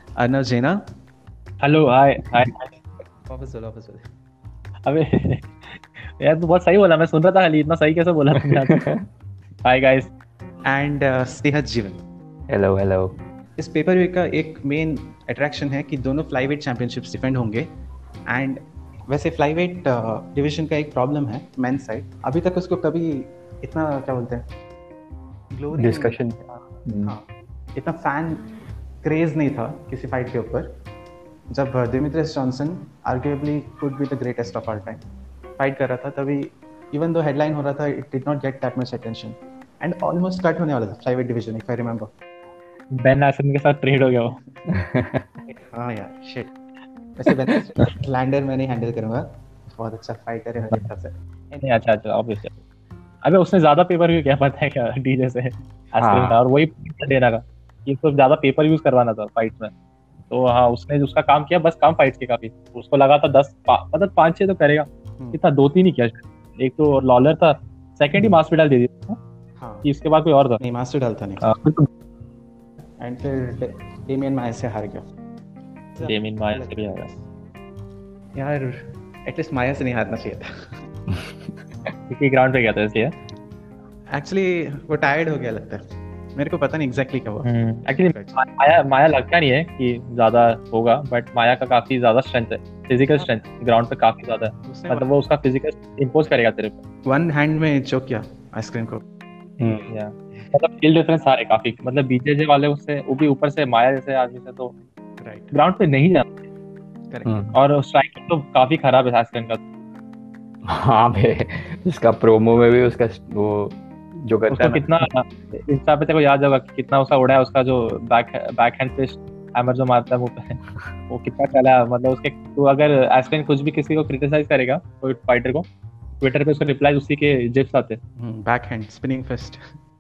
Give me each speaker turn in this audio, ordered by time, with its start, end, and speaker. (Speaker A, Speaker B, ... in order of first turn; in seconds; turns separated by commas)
Speaker A: 0.2-0.8, Speaker B: 1.6-2.7, Speaker A: 3.3-4.0, Speaker B: 4.8-8.8, Speaker C: 8.4-9.0, Speaker B: 9.6-10.1, Speaker A: 10.7-12.0, Speaker C: 12.5-13.1, Speaker A: 13.6-17.7, Speaker A: 18.3-24.4, Speaker A: 25.5-27.2, Speaker C: 25.7-27.1, Speaker A: 27.8-28.4, Speaker A: 29.0-30.7, Speaker A: 31.5-35.0, Speaker A: 35.6-42.1, Speaker B: 42.9-44.4, Speaker A: 44.3-44.6, Speaker C: 44.7-45.3, Speaker A: 45.5-46.5, Speaker A: 47.2-51.8, Speaker B: 51.6-52.6, Speaker B: 53.2-59.7, Speaker C: 56.0-56.4, Speaker B: 60.3-69.2, Speaker A: 69.6-69.9, Speaker B: 69.8-70.6, Speaker A: 70.6-71.5, Speaker B: 71.4-71.7, Speaker A: 73.0-75.0, Speaker A: 76.0-77.2, Speaker B: 76.0-77.1, Speaker A: 78.3-80.7, Speaker C: 81.1-81.5, Speaker B: 82.1-83.2, Speaker A: 84.1-85.8, Speaker A: 86.4-88.4, Speaker B: 87.4-96.8, Speaker A: 94.6-95.1, Speaker A: 97.1-99.0, Speaker C: 99.6-99.9, Speaker B: 99.9-104.7, Speaker A: 105.2-105.5, Speaker B: 105.5-106.4, Speaker A: 107.1-107.4, Speaker C: 107.3-107.6, Speaker B: 107.5-109.6, Speaker C: 110.7-114.9, Speaker B: 114.5-125.7, Speaker B: 126.2-128.0, Speaker A: 128.2-129.8